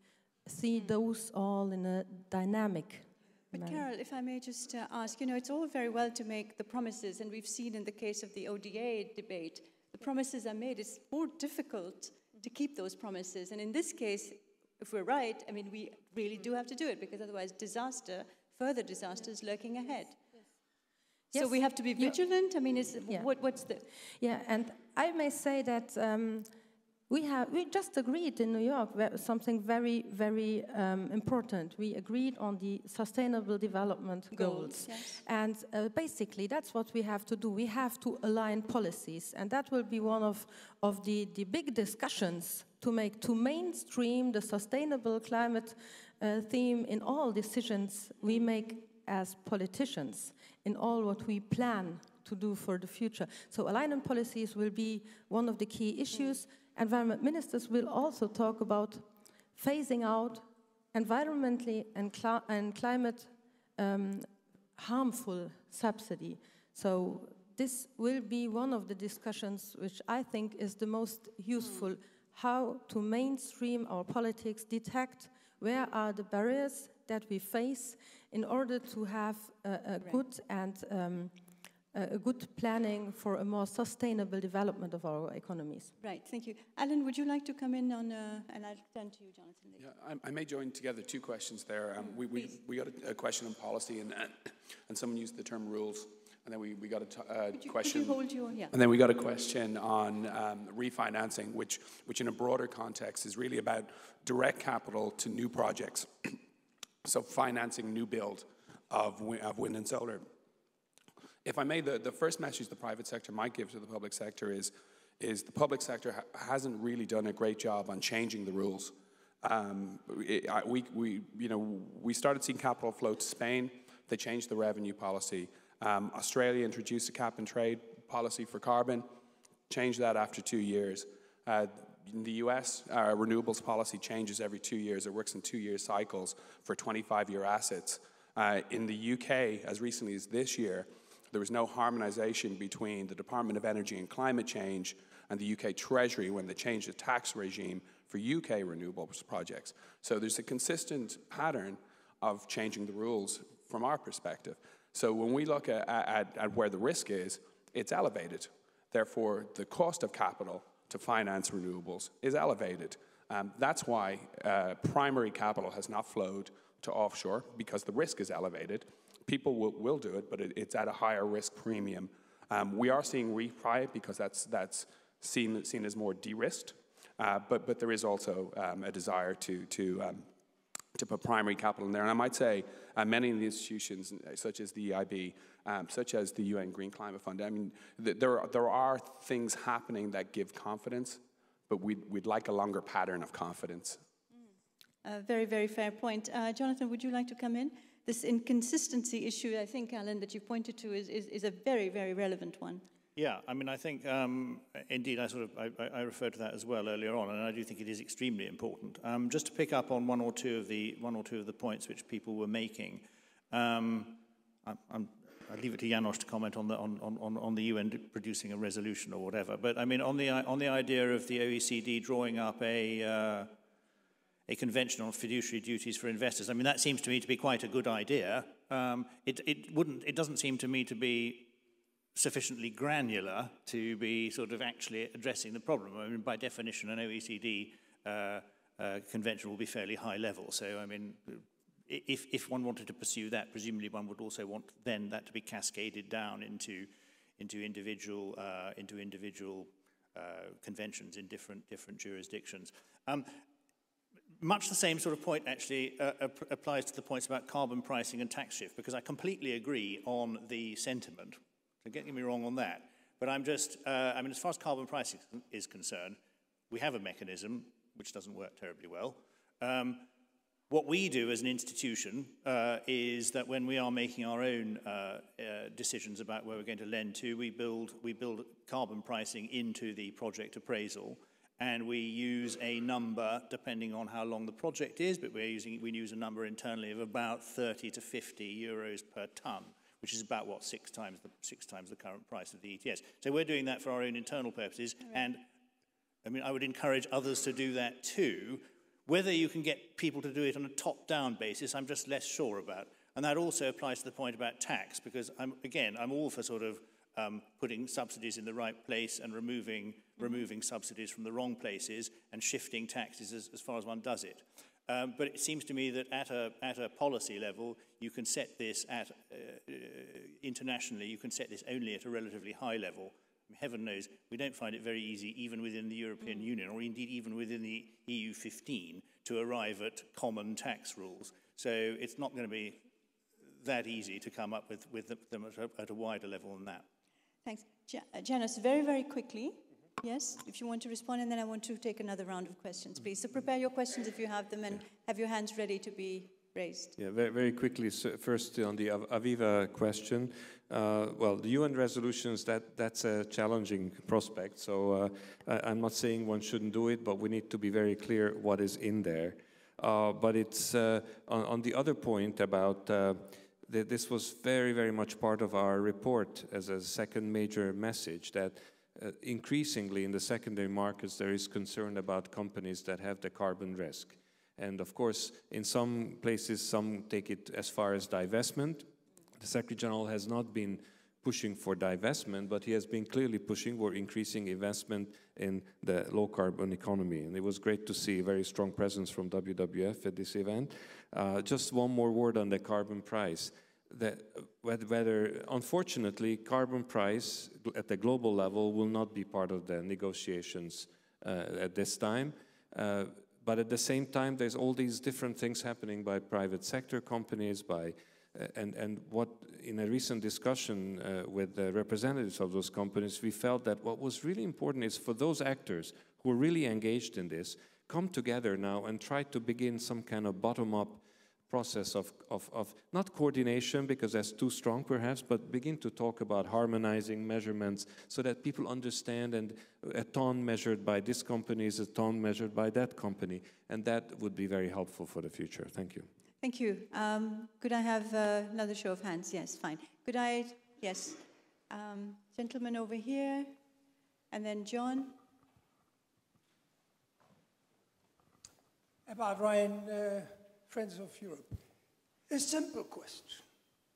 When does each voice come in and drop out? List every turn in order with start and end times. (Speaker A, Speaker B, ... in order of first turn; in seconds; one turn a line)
Speaker A: 0.4-3.8
Speaker B: 3.5-20.2
Speaker A: 21.3-22.2
Speaker B: 21.3-23.8
Speaker A: 24.2-26.5
Speaker A: 27.1-81.3
Speaker B: 34.3-35.2
Speaker A: 81.9-85.9
Speaker B: 86.0-89.8
Speaker C: 89.8-98.2
Speaker B: 92.0-92.5
Speaker B: 97.6-98.7
Speaker C: 98.7-106.4
Speaker C: 107.0-110.2
Speaker C: 111.4-129.1
Speaker C: 129.7-180.3
Speaker C: 180.9-194.0
Speaker B: 195.0-202.8
Speaker D: 203.2-223.5
Speaker D: 224.5-231.5
Speaker D: 232.1-253.4
Speaker D: 254.4-266.2
Speaker D: 266.7-270.1
Speaker D: 270.7-295.4
Speaker D: 296.2-332.8
Speaker D: 333.6-336.9
Speaker B: 337.4-346.9
Speaker E: 347.0-378.9
Speaker E: 379.4-436.1
Speaker B: 436.4-443.5
Speaker B: 444.3-445.1
Speaker F: 449.1-451.6
Speaker F: 452.3-453.4